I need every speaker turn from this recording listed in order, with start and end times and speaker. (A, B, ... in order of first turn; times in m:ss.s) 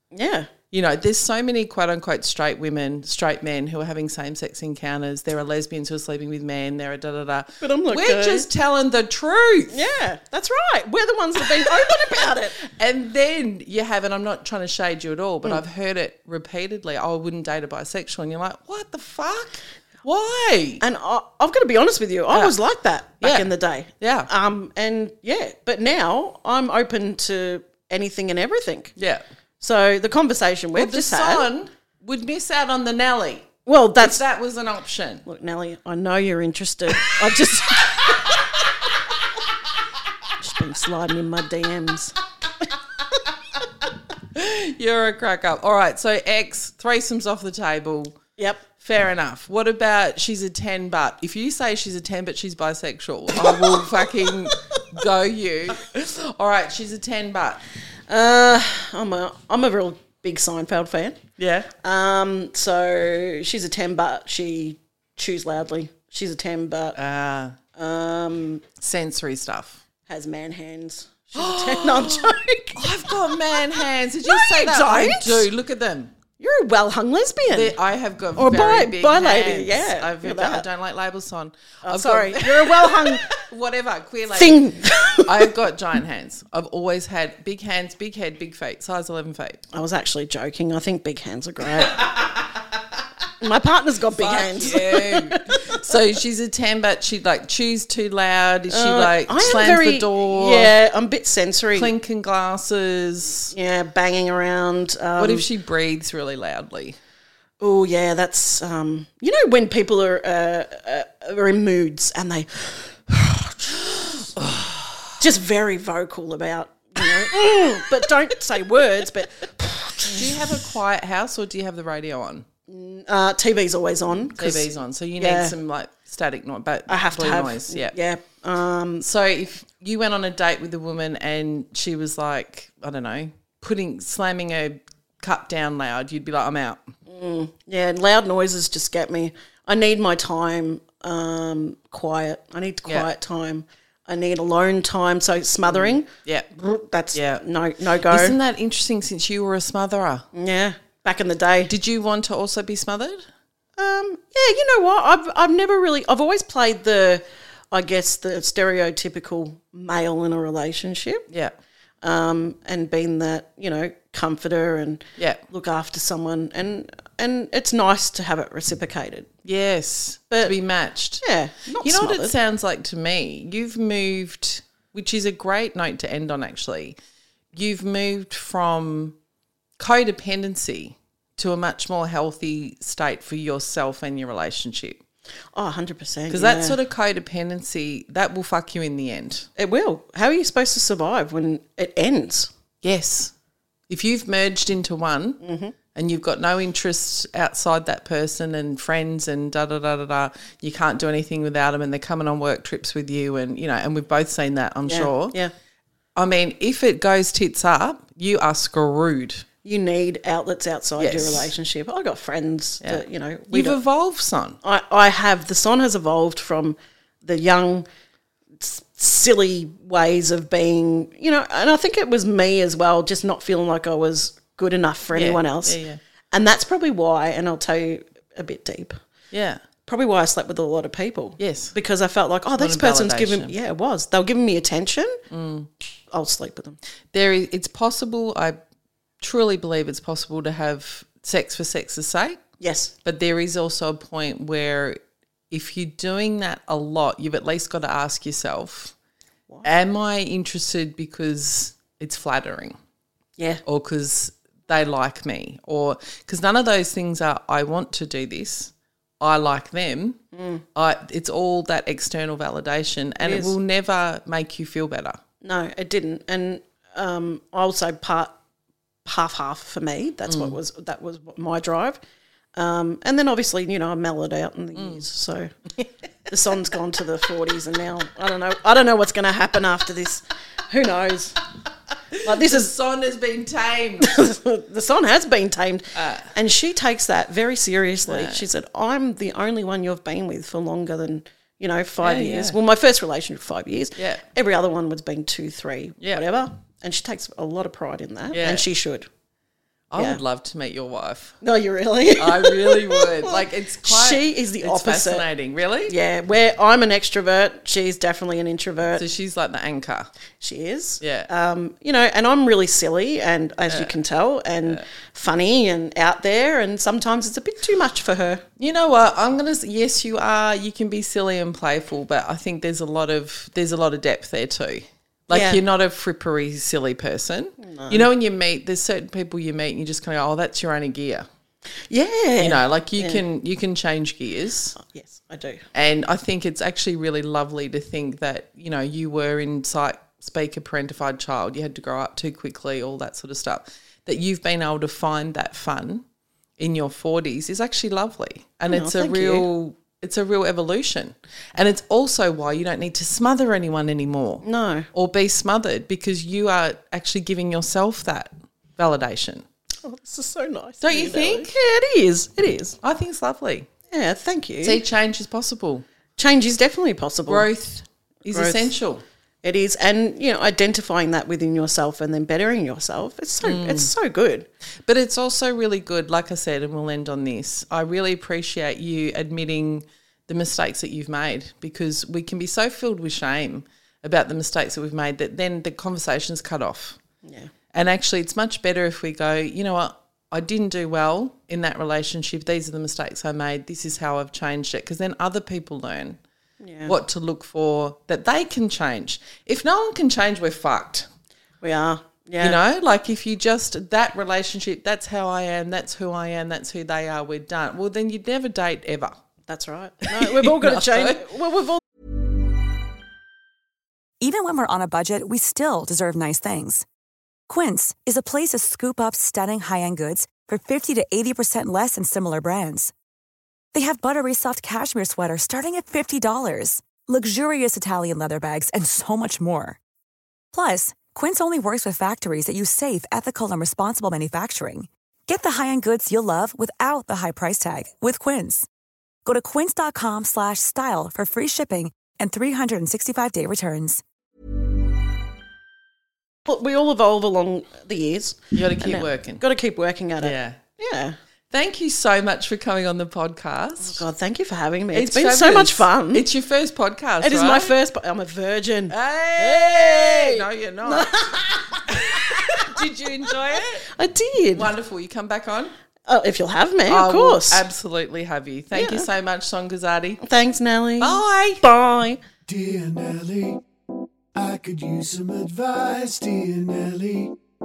0:00.1-0:00.5 A
0:00.7-0:09.9 B
0:07.6-0:08.5 A
0:09.7-0:12.6 A
0:12.6-0:20.8 B
0:20.8-0:28.9 A
0:22.3-0:22.6 B
0:23.2-0:23.5 B
0:24.0-0:24.3 B
0:29.0-0:29.2 B
0:29.6-0:31.5 A
0:30.8-0:35.2 B
0:33.7-0:34.2 A
0:35.2-0:38.7 A
0:37.8-0:38.4 B
0:40.4-0:42.2 A
0:44.3-0:48.2 B
0:48.4-0:48.6 A
0:48.8-0:57.6 B
0:53.3-0:54.8 A
0:58.1-1:01.2 A
1:01.4-1:01.7 B
1:01.8-1:07.0 A
1:07.0-1:07.6 B
1:07.8-1:08.7 A
1:08.8-1:09.8 B
1:10.1-1:15.5 A
1:11.4-1:16.1 B
1:16.4-1:17.8 A
1:17.5-1:29.6 B
1:18.4-1:20.6 A
1:21.8-1:23.4 A
1:24.3-1:25.5 A
1:29.7-1:32.2 A
1:33.4-1:36.0 A
1:34.1-1:40.7 B
1:38.7-1:41.9 A
1:41.8-1:43.5 B
1:43.5-1:45.5 A
1:45.2-1:47.0 B
1:47.6-1:54.3 A
1:54.4-1:55.0 B
1:55.2-2:00.4 A
2:00.0-2:02.5 B
2:02.7-2:05.6 A
2:04.4-2:08.0 B
2:06.9-2:09.0 A
2:09.0-2:16.9 B
2:17.1-2:28.4 A
2:25.7-2:26.5 B
2:27.1-2:27.4 B
2:28.1-2:30.3 B
2:30.3-2:31.7 A
2:31.7-2:33.2 B
2:33.8-2:41.2 A
2:41.3-2:41.6 B
2:42.0-2:49.3 A
2:49.4-2:51.2 B
2:51.2-2:52.4 A
2:51.8-2:57.0 B
2:57.5-2:59.2 B
2:59.8-3:05.0 B
3:05.6-3:06.8 A
3:06.3-3:09.5 B
3:09.6-3:12.5 A
3:12.8-3:13.3 B
3:13.9-3:15.4 B
3:15.4-3:15.7 A
3:16.0-3:25.4 B
3:24.9-3:25.5 A
3:26.2-3:29.5 B
3:29.6-3:33.8 A
3:31.0-3:31.5 B
3:32.8-3:34.6 B
3:34.6-3:37.9 A
3:38.6-3:45.8 A
3:45.1-3:46.0 B
3:46.3-3:49.0 A
3:49.3-3:49.6 B
3:49.9-3:55.2 A
3:51.4-3:51.7 B
3:52.6-3:53.5 B
3:55.3-3:55.7 B
3:56.1-3:56.8 A
3:57.1-3:58.6 B
3:59.2-4:02.4 B
4:02.6-4:02.9 A
4:03.0-4:05.0 B
4:05.5-4:08.9 B
4:09.6-4:12.8 B
4:13.4-4:13.6 A
4:13.6-4:20.2 B
4:20.3-4:20.6 A
4:20.8-4:25.2 B
4:23.2-4:23.6 A
4:25.4-4:28.4 A
4:29.0-4:32.0 A
4:30.3-4:30.6 B
4:32.6-4:35.5 A
4:34.8-4:35.0 B
4:36.3-4:41.4 A
4:42.1-4:44.3 B
4:42.2-4:42.7 A
4:44.0-4:59.1 A
4:46.0-4:46.3 B
4:48.1-4:48.4 B
4:52.0-4:52.6 B
4:54.0-4:54.2 B
4:58.3-4:58.7 B
4:59.9-5:01.4 B
5:01.4-5:05.3 A
5:02.2-5:06.0 B
5:05.9-5:09.0 A
5:09.0-5:10.1 B
5:10.4-5:18.4 A
5:11.0-5:11.3 B
5:13.7-5:14.0 B
5:18.6-5:31.3 B
5:25.3-5:25.6 A
5:27.6-5:28.1 A
5:31.9-5:33.2 A
5:32.4-5:34.8 B
5:34.8-5:35.6 A
5:35.7-5:46.0 B
5:46.6-5:59.4 B
5:48.7-5:49.5 A
5:54.4-5:54.9 A
5:59.8-6:02.8 A
6:00.8-6:01.6 B
6:02.8-6:03.7 B
6:03.9-6:04.8 A
6:04.6-6:05.8 B
6:06.2-6:07.5 A
6:07.3-6:09.0 B
6:08.3-6:08.8 A
6:09.4-6:14.5 A
6:13.4-6:13.9 B
6:14.9-6:27.0 B
6:27.2-6:27.5 A
6:27.7-6:36.2 B
6:36.6-6:37.0 A
6:36.8-6:41.1 B
6:41.6-6:42.6 A
6:42.4-6:49.2 B
6:49.5-6:51.8 A
6:50.1-6:51.3 B
6:54.2-6:56.8 C
6:57.5-7:02.9 C
7:03.7-7:09.8 C
7:10.5-7:18.7 C
7:19.2-7:24.0 C
7:26.4-7:31.2 A
7:28.5-7:29.4 B
7:30.2-7:30.6 B
7:31.5-7:34.0 B
7:33.8-7:36.3 A
7:34.9-7:37.7 B
7:37.2-7:44.7 A
7:38.9-7:41.1 B
7:41.9-7:43.9 B
7:44.5-7:45.7 B
7:46.1-7:47.6 A
7:46.9-7:50.2 B
7:48.7-7:49.0 A
7:50.2-7:52.2 A
7:51.0-7:51.6 B
7:52.5-7:53.6 D
7:54.4-7:57.3 D